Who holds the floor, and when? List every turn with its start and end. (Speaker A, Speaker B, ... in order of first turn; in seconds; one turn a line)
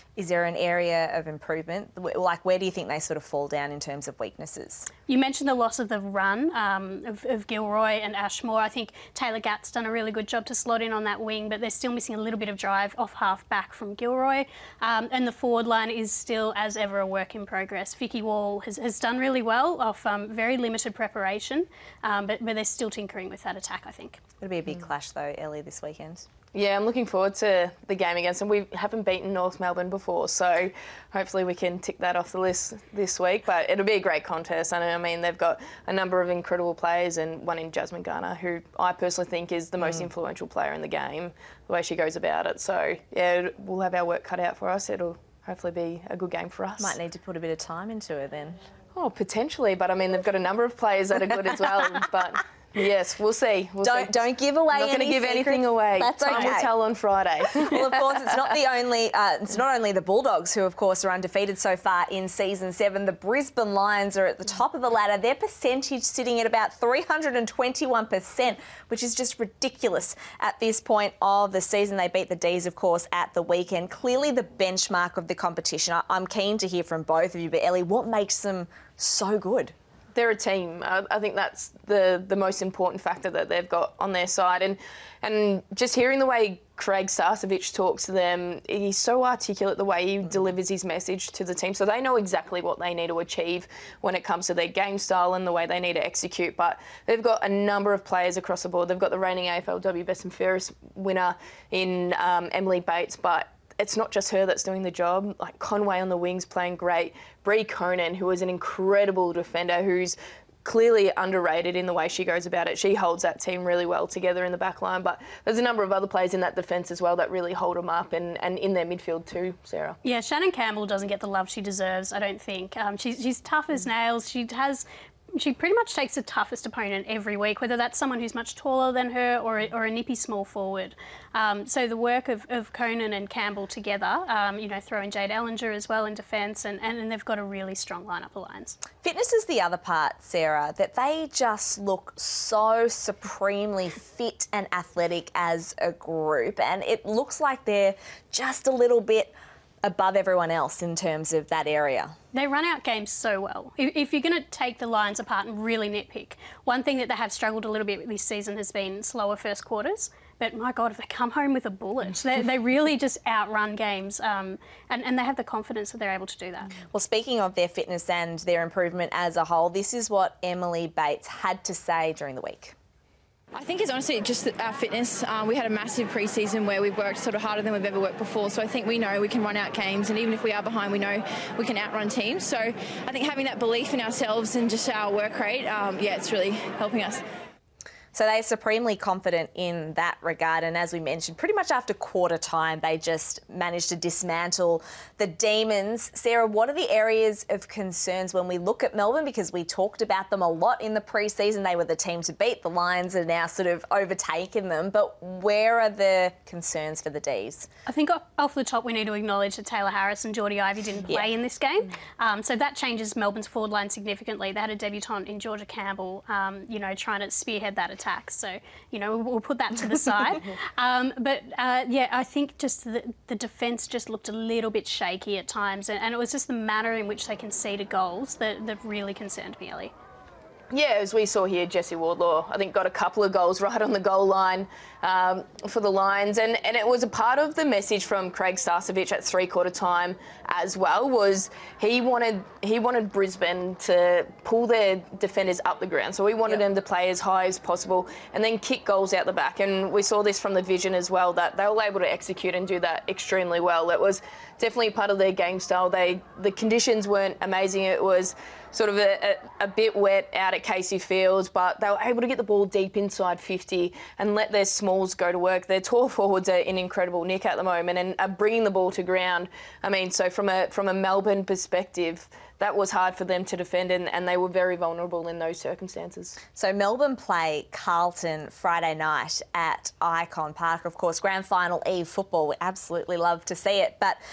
Speaker A: 0.2-4.9
Speaker B: 5.1-24.2
Speaker A: 24.4-26.3
Speaker C: 26.5-47.0
Speaker A: 46.8-48.6
Speaker C: 49.0-58.2
Speaker A: 53.8-56.7
Speaker A: 57.5-79.7
Speaker C: 80.2-120.0
Speaker B: 120.0-138.8
Speaker A: 139.0-149.3
Speaker A: 149.8-152.1
Speaker B: 152.3-166.7
Speaker A: 166.8-172.8
Speaker D: 173.5-187.2
Speaker A: 188.1-207.7
Speaker B: 207.9-229.9
Speaker C: 230.7-276.4
Speaker A: 276.6-284.2